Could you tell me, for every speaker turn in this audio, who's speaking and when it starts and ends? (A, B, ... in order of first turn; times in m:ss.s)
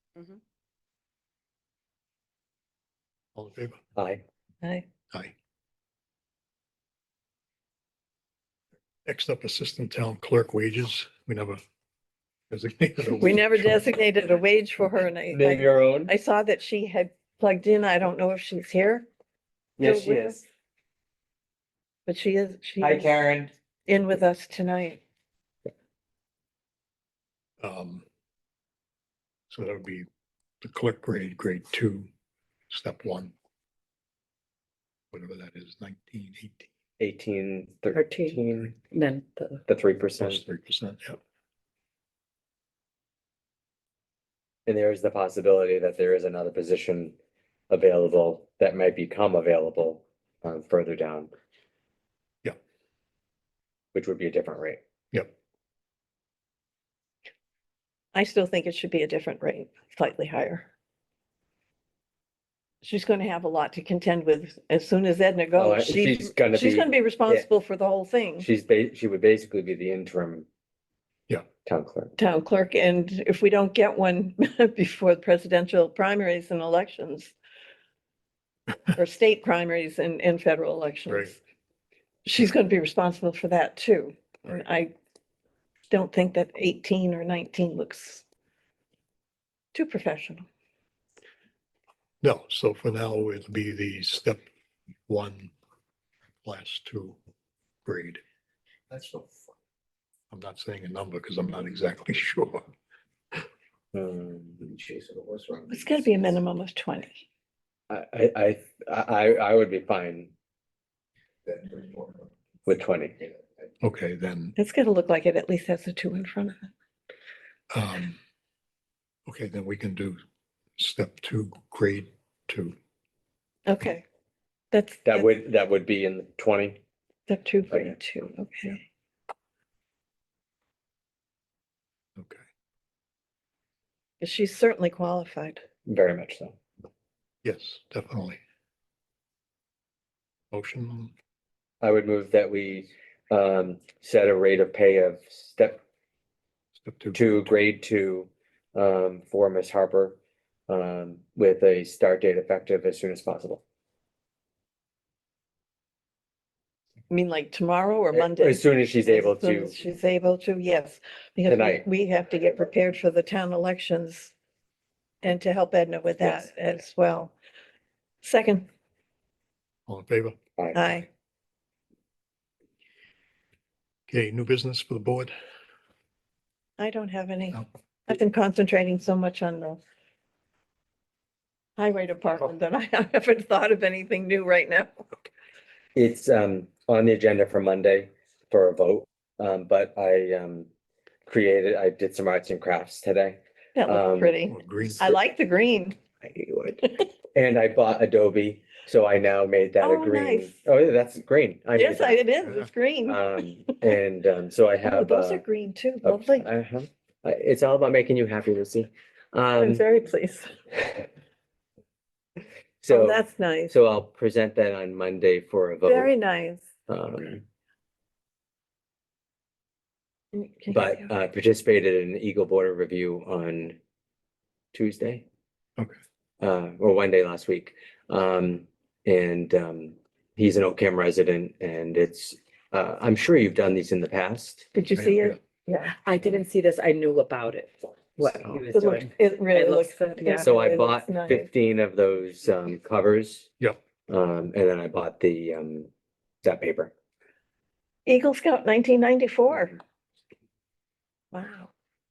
0:03.4-0:03.8 A
0:04.0-0:04.2 B
0:09.1-0:11.6 A
0:12.5-0:13.9 A
0:13.2-0:19.1 C
0:15.3-0:16.1 B
0:19.8-0:20.4 B
0:19.8-0:20.4 C
0:22.1-0:23.2 C
0:22.8-0:23.5 B
0:23.9-0:25.0 C
0:27.6-0:28.0 A
0:29.5-0:30.1 A
0:30.6-0:32.1 A
0:32.7-0:33.3 A
0:35.1-0:36.7 A
0:37.0-0:38.8 B
0:37.9-0:39.6 D
0:39.7-0:40.4 B
0:40.2-0:41.2 A
0:44.7-0:47.2 B
0:47.7-0:51.3 B
0:53.9-0:54.8 B
0:58.1-1:00.7 C
1:02.8-1:08.5 C
1:05.6-1:07.5 B
1:08.4-1:10.5 B
1:11.6-1:12.1 B
1:12.2-1:17.3 C
1:18.9-1:21.4 C
1:21.1-1:21.4 A
1:22.2-1:24.9 C
1:25.9-1:28.2 C
1:29.7-1:30.4 C
1:32.2-1:34.4 A
1:35.1-1:35.5 A
1:36.4-1:37.2 A
1:37.8-1:38.2 A
1:39.0-1:39.3 B
1:40.3-1:42.7 A
1:43.9-1:45.6 B
1:45.7-1:47.2 C
1:47.9-1:50.3 B
1:51.6-1:52.1 B
1:52.7-1:53.2 B
1:53.8-1:54.6 A
1:54.6-1:56.7 C
1:57.7-1:58.2 A
1:59.3-2:00.2 A
2:00.8-2:02.8 A
2:03.7-2:04.0 C
2:04.7-2:05.3 C
2:05.0-2:06.8 B
2:07.3-2:08.8 C
2:14.2-2:15.6 C
2:15.9-2:16.6 B
2:17.4-2:18.4 A
2:20.5-2:21.1 A
2:21.8-2:25.8 B
2:26.8-2:27.6 A
2:27.1-2:33.6 B
2:37.1-2:44.3 C
2:38.1-2:39.7 B
2:41.5-2:41.8 B
2:45.2-2:47.3 C
2:48.2-2:48.7 C
2:49.9-2:50.4 A
2:50.6-2:51.0 B
2:50.7-2:51.1 C
2:54.1-2:55.3 A
2:56.8-2:59.8 C
3:01.8-3:04.9 C
3:06.0-3:10.7 B
3:11.3-3:14.4 B
3:13.8-3:16.0 C
3:14.5-3:15.2 A
3:16.2-3:22.3 B
3:19.8-3:20.5 C
3:21.8-3:23.9 C
3:23.1-3:25.4 B
3:24.8-3:26.5 C
3:26.0-3:29.8 B
3:29.6-3:30.5 C
3:32.8-3:36.1 B
3:32.9-3:33.8 C
3:35.9-3:36.6 C
3:36.9-3:37.4 B
3:40.3-3:41.1 C
3:40.7-3:43.8 B
3:44.7-3:45.2 B
3:46.4-3:54.7 B
3:54.7-3:56.0 C
3:55.0-3:55.4 A
3:56.0-4:00.7 D
3:58.7-4:01.5 C
4:00.4-4:03.5 B
4:04.1-4:05.9 B
4:06.4-4:06.9 B
4:08.1-4:09.8 C
4:11.3-4:11.7 C